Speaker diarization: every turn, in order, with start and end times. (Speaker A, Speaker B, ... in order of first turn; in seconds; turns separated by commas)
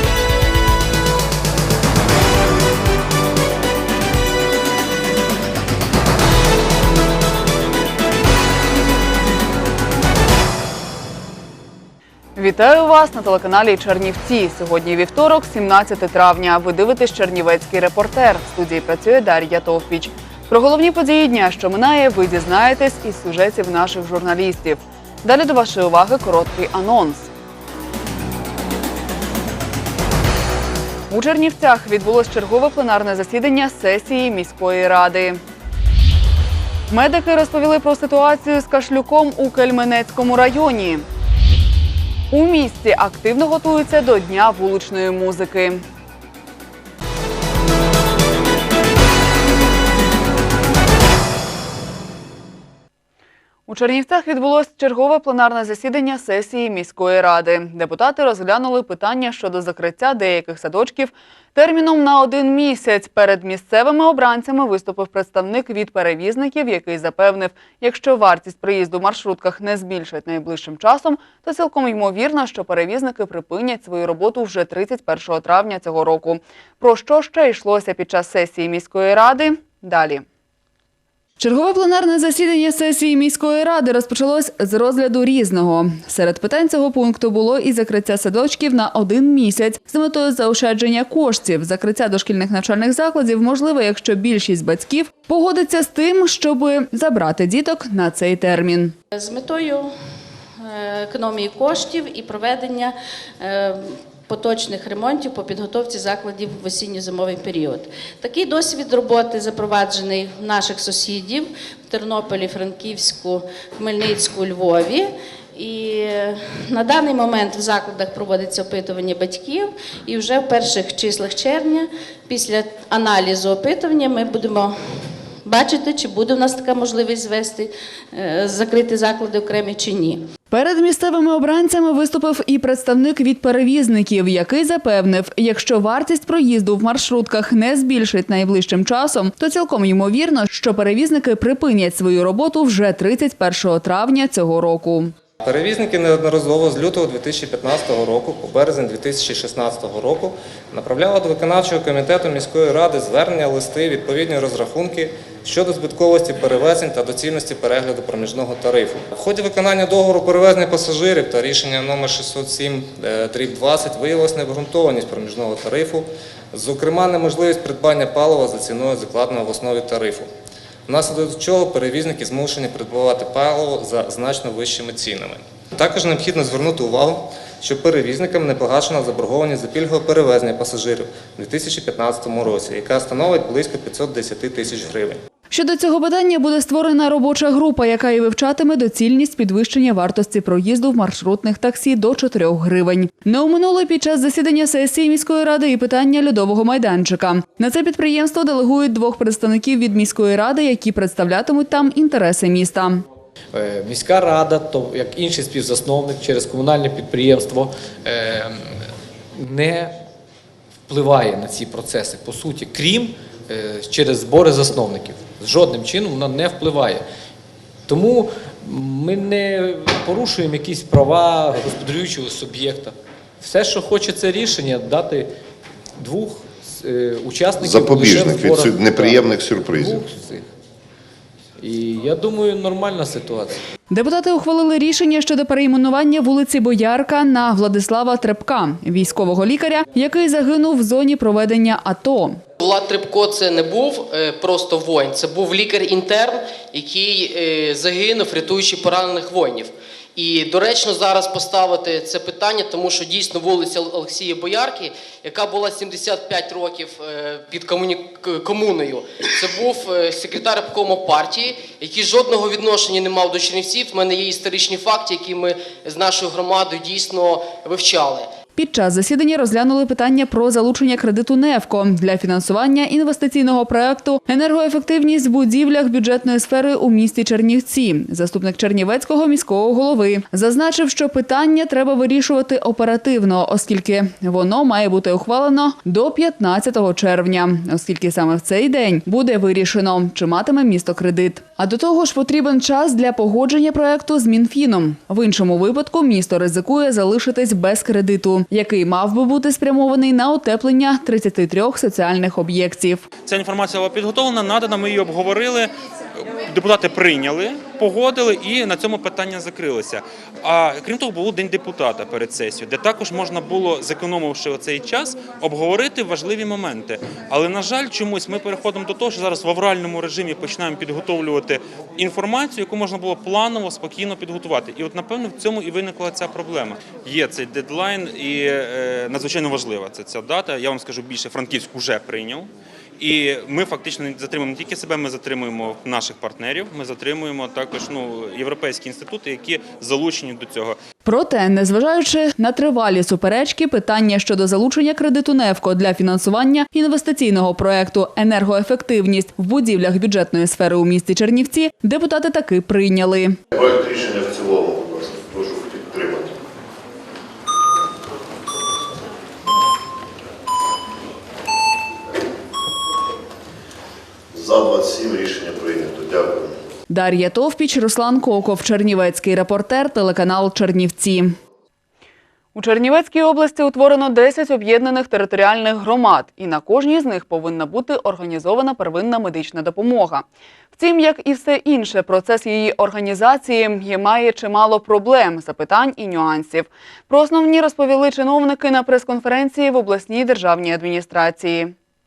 Speaker A: 12.3-27.3, Speaker A: 31.1-35.4, Speaker A: 36.9-41.0, Speaker A: 42.3-45.8, Speaker A: 53.7-80.2, Speaker A: 81.4-98.9, Speaker B: 99.1-99.9, Speaker B: 100.6-124.7, Speaker B: 125.4-130.3, Speaker A: 130.5-145.1, Speaker C: 145.4-170.3, Speaker C: 170.9-185.2, Speaker A: 185.5-203.0, Speaker D: 203.5-209.9, Speaker D: 210.9-217.0, Speaker D: 217.9-225.3, Speaker D: 226.0-230.4, Speaker E: 227.6-229.9, Speaker D: 231.6-233.6, Speaker A: 233.9-242.4, Speaker F: 242.6-268.3, Speaker A: 268.6-303.0, Speaker G: 303.2-305.7, Speaker G: 306.4-340.8, Speaker A: 341.0-353.4, Speaker E: 353.5-356.3, Speaker E: 364.3-366.5, Speaker A: 366.9-371.4, Speaker A: 372.5-391.7